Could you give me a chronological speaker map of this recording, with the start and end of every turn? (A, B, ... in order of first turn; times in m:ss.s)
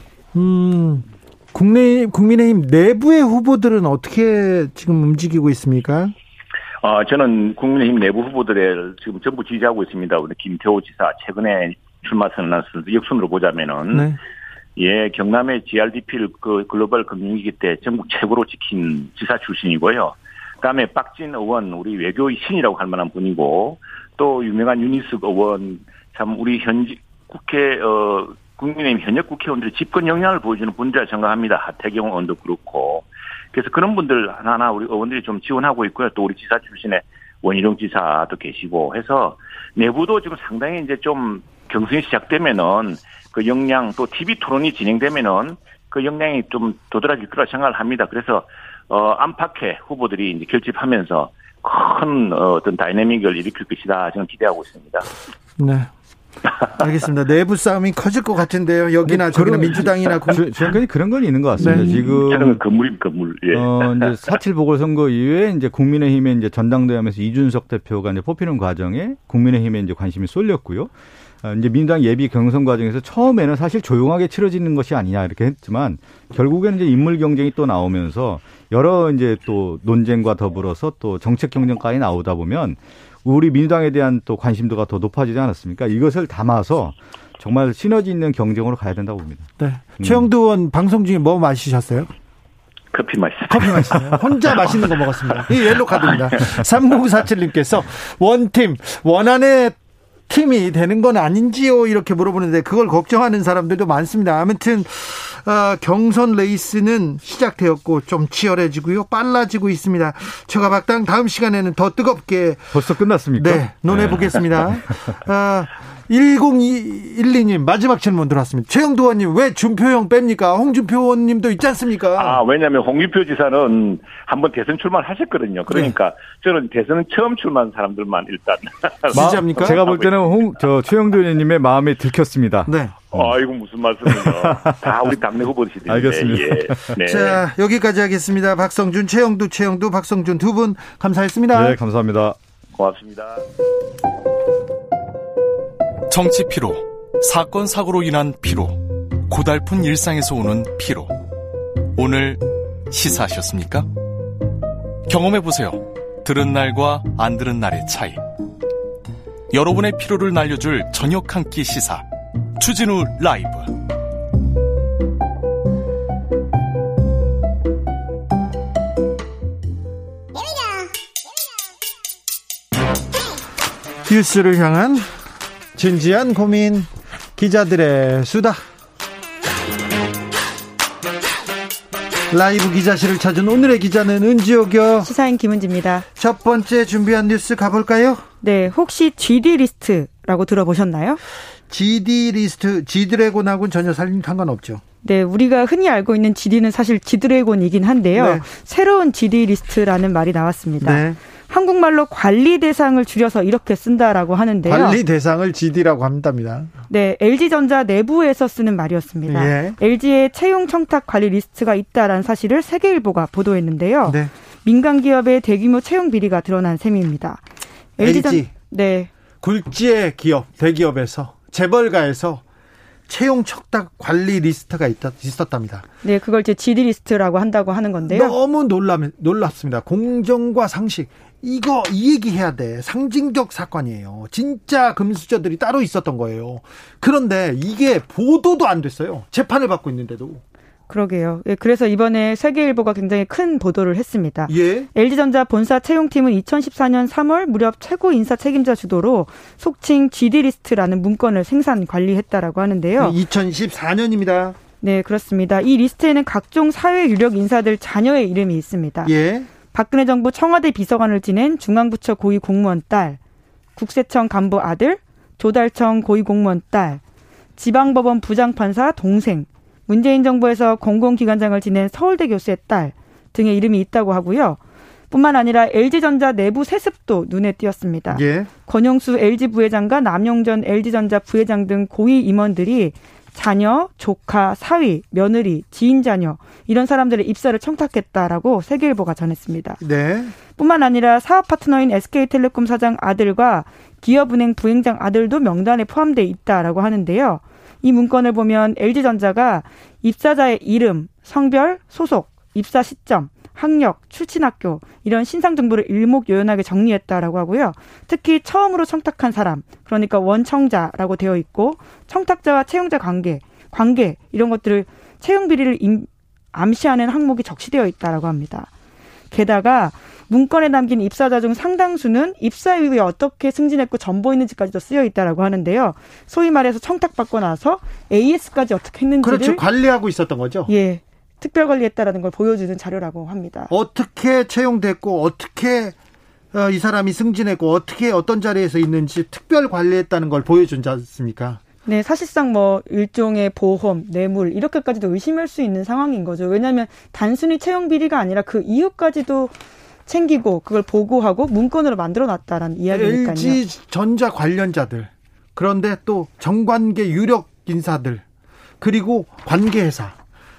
0:00.3-0:06.1 A
0:06.8-0:14.1 B
0:13.9-0:14.2 A
0:14.8-0:55.1 B
0:55.6-0:55.9 A
0:56.7-1:00.8 A
0:59.0-1:02.6 C
1:01.6-1:01.9 A
1:01.6-1:04.1 B
1:03.5-1:10.9 C
1:11.4-1:30.3 C
1:29.6-1:32.1 A
1:32.9-1:34.2 B
1:33.5-1:39.8 A
1:40.3-1:52.8 A
1:52.7-1:54.8 C
1:53.4-2:02.4 A
2:02.2-2:10.4 B
2:05.7-2:05.9 A
2:09.1-2:09.8 A
2:09.1-2:13.3 C
2:12.6-2:13.0 A
2:13.1-2:17.4 B
2:14.0-2:14.8 C
2:15.9-2:17.0 C
2:17.0-2:21.8 A
2:21.5-2:22.4 C
2:22.8-2:23.4 B
2:26.1-2:31.1 D
2:32.0-2:33.9 D
2:35.1-2:38.2 D
2:39.5-2:42.0 D
2:42.6-2:43.7 D
2:54.0-2:55.1 A
2:55.7-2:58.6 A
3:02.3-3:05.1 A
3:05.0-3:06.0 E
3:06.2-3:08.2 A
3:08.4-3:11.2 E
3:11.7-3:14.8 A
3:15.0-3:25.0 E
3:18.2-3:18.4 A
3:20.8-3:21.2 A
3:24.6-3:26.7 A
3:26.9-3:37.4 E
3:29.3-3:29.8 A
3:38.0-3:39.1 E
3:38.0-3:38.5 A
3:39.4-3:42.4 A
3:43.1-3:45.9 A
3:46.0-3:48.3 E
3:48.0-4:00.4 A
4:00.9-4:13.2 E
4:04.5-4:04.9 A
4:13.0-4:14.6 A
4:14.8-4:19.1 E
4:19.0-4:19.5 A
4:19.7-4:23.2 E
4:23.8-4:27.0 E
4:27.6-4:34.6 E
4:35.1-4:49.8 E
4:38.1-4:38.5 A
4:49.8-4:50.4 A
4:50.5-5:18.7 E
5:19.3-5:29.6 E
5:29.2-5:30.7 A
5:30.7-5:33.7 E
5:33.7-5:36.0 A
5:36.5-5:41.6 A
5:41.8-5:49.5 E
5:50.0-5:53.6 E
5:52.9-5:58.2 A
5:58.8-6:00.2 A